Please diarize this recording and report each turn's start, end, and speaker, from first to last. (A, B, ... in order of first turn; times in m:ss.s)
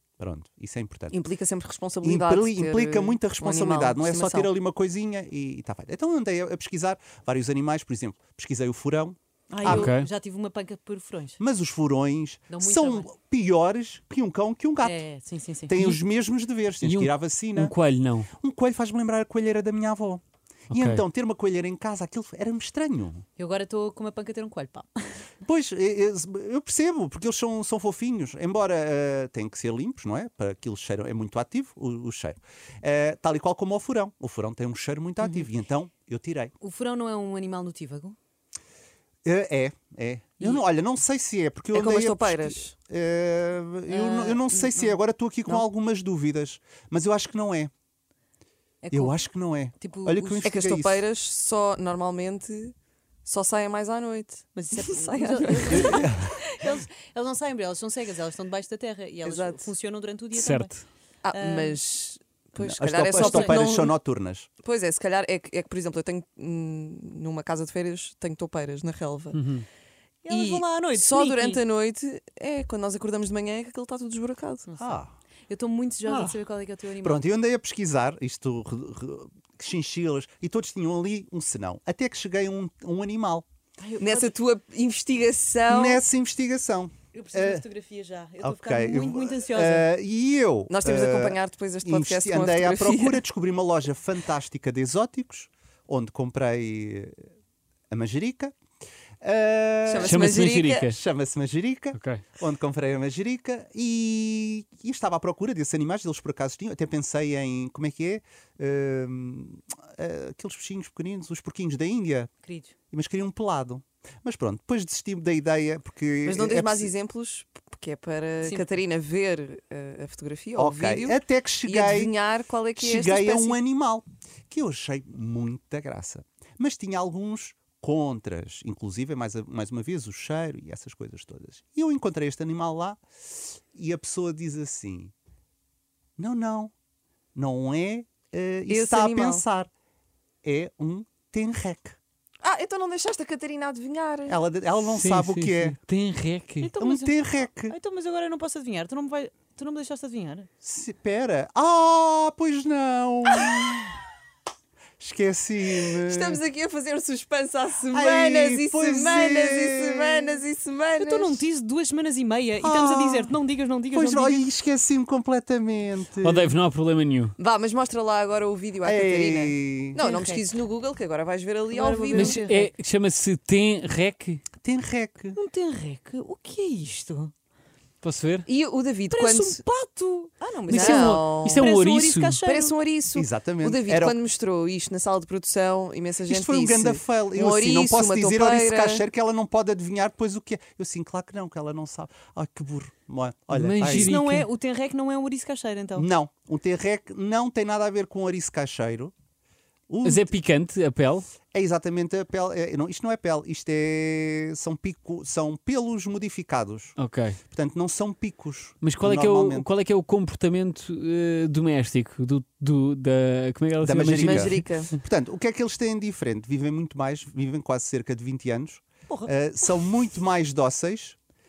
0:00.2-0:01.2 A
0:01.1-0:04.5 B
0:02.0-0:09.9 A
0:09.5-0:11.4 C
0:09.6-0:10.1 D
0:11.4-0:15.0 A
0:12.5-0:13.1 C
0:14.8-0:15.7 C
0:15.7-0:17.8 A
0:16.8-0:18.3 D
0:18.4-0:23.2 A
0:20.7-0:21.0 D
0:23.4-0:25.3 C
0:25.4-0:36.5 A
0:35.2-0:35.5 C
0:36.6-0:38.2 C
0:39.2-0:47.7 A
0:41.7-0:42.7 B
0:43.9-0:45.0 C
0:48.8-0:49.2 C
0:48.9-0:51.1 A
0:49.8-0:50.5 C
0:50.4-0:52.7 B
0:53.3-0:56.4 B
0:54.5-1:00.7 C
0:55.7-0:56.3 A
0:59.2-0:59.7 B
1:00.3-1:00.9 D
1:01.2-1:04.0 B
1:01.3-1:01.8 C
1:02.6-1:04.5 A
1:03.1-1:03.6 C
1:04.6-1:09.4 B
1:09.3-1:09.7 D
1:10.2-1:11.6 C
1:10.3-1:14.7 B
1:14.7-1:17.2 C
1:14.8-1:15.1 A
1:16.1-1:16.4 A
1:17.0-1:23.4 A
1:23.8-1:24.3 C
1:24.0-1:26.1 B
1:25.7-1:27.6 A
1:27.1-1:29.9 C
1:28.4-1:37.2 A
1:30.7-1:33.2 B
1:37.9-1:38.6 A
1:39.2-1:40.2 A
1:39.9-1:40.9 B
1:40.0-1:41.0 D
1:40.8-1:52.3 A
1:41.9-1:42.2 D
1:52.4-1:52.7 C
1:52.9-1:56.9 A
1:56.2-2:03.6 B
2:00.6-2:02.1 A
2:02.8-2:13.0 A
2:13.7-2:15.1 A
2:16.2-2:16.7 A
2:17.4-2:19.7 A
2:18.7-2:19.4 B
2:20.4-2:22.0 A
2:22.4-2:24.4 B
2:24.3-2:25.8 A
2:24.9-2:26.7 D
2:26.6-2:30.5 C
2:26.8-2:27.8 A
2:30.6-2:34.0 A
2:35.0-2:36.4 A
2:35.8-2:41.4 B
2:37.9-2:40.4 A
2:41.0-2:44.4 C
2:42.6-2:43.3 A
2:43.9-2:46.6 A
2:46.2-2:47.3 D
2:47.4-2:52.4 B
2:48.8-2:50.0 A
2:50.0-2:50.4 C
2:51.7-2:52.7 C
2:52.1-2:54.4 D
2:54.6-2:55.4 A
2:55.4-2:57.3 C
2:58.0-2:58.5 D
2:58.5-2:59.6 B
2:59.1-3:02.7 C
3:00.7-3:02.4 D
3:00.7-3:01.7 B
3:02.4-3:09.1 B
3:03.1-3:04.2 A
3:06.3-3:14.1 A
3:13.5-3:14.5 D
3:13.8-3:16.1 C
3:16.0-3:19.1 A
3:19.9-3:20.3 A
3:20.0-3:21.3 D
3:21.5-3:27.0 A
3:27.0-3:27.4 D
3:27.5-3:29.7 A
3:28.8-3:34.7 D
3:33.8-3:41.2 A
3:34.2-3:34.9 B